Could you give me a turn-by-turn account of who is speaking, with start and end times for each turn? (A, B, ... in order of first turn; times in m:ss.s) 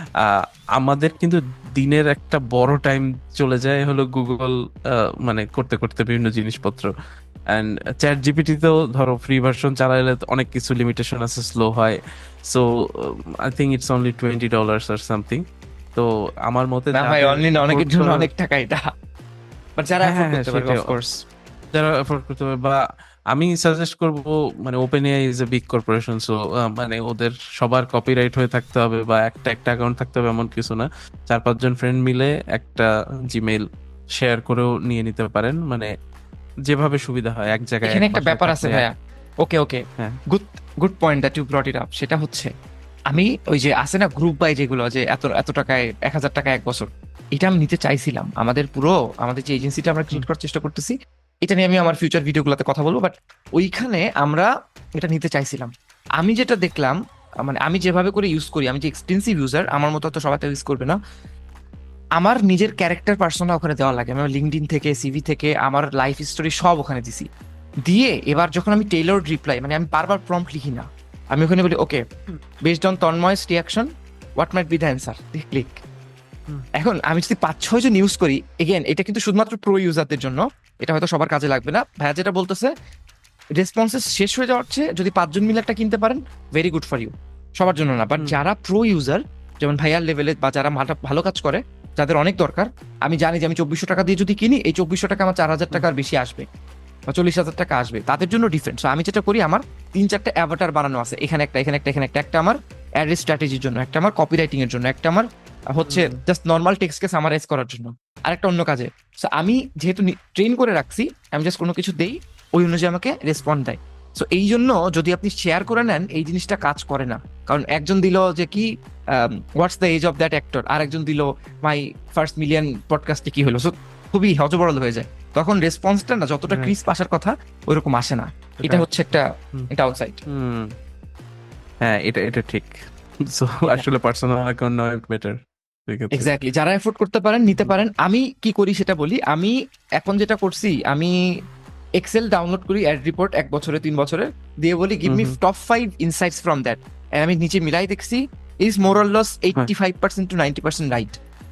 0:00.2-0:06.9 A
0:07.5-0:12.0 A
0:13.5-0:15.4 A
0:16.0-0:18.3 A
0:16.9-0:18.9 B
0:19.8-0:21.0 B
0:20.0-0:20.9 A
0:21.7-0:22.8 A
0:23.3-0:33.6 A
0:34.2-0:35.9 A
0:36.7-0:38.8 A
0:37.8-0:38.9 B
0:39.4-0:42.5 B
0:43.1-0:50.9 B
0:51.4-1:01.0 B
1:02.2-1:07.3 B
1:07.9-1:12.0 B
1:12.7-1:13.9 B
1:14.4-1:15.8 B
1:16.8-1:22.7 B
1:23.6-1:36.4 B
1:37.1-2:10.2 B
1:45.8-1:46.2 A
2:06.5-2:06.8 A
2:08.6-2:08.9 A
2:10.3-2:10.7 A
2:11.8-2:12.7 A
2:13.3-2:15.4 A
2:15.9-2:16.3 A
2:16.1-2:21.1 B
2:17.4-2:17.7 A
2:22.0-2:31.1 B
2:25.0-2:25.4 A